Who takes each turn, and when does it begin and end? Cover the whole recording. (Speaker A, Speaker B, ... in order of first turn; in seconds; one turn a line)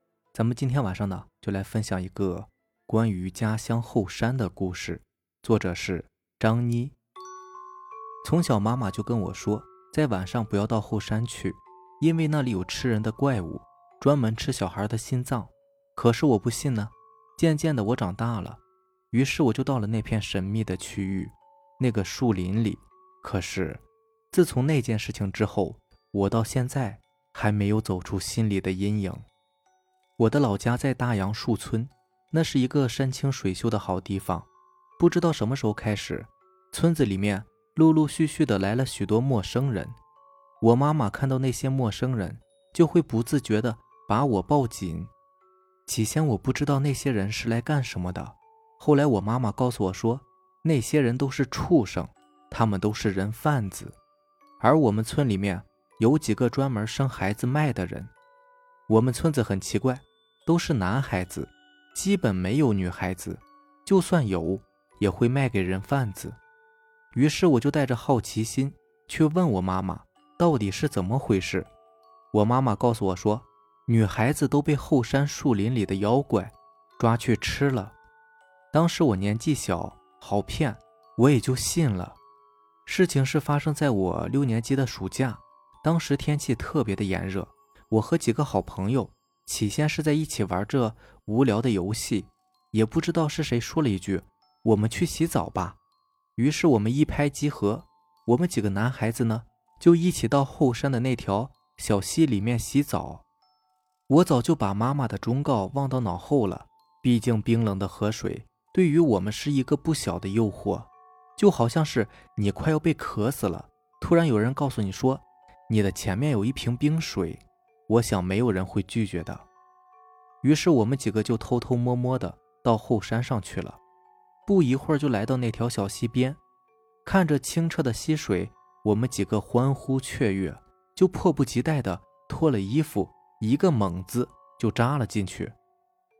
Speaker A: 0.3-6.9
Speaker A: 8.2-29.2
Speaker A: 30.2-34.5
Speaker A: 35.0-40.0
Speaker A: 40.6-45.1
Speaker A: 45.9-54.0
Speaker A: 54.6-58.1
Speaker A: 58.9-66.4
Speaker A: 67.1-71.7
Speaker A: 72.3-77.9
Speaker A: 78.7-82.2
Speaker A: 82.8-95.8
Speaker A: 96.4-103.2
Speaker A: 104.1-119.5
Speaker A: 120.4-123.8
Speaker A: 124.5-126.4
Speaker A: 127.0-135.5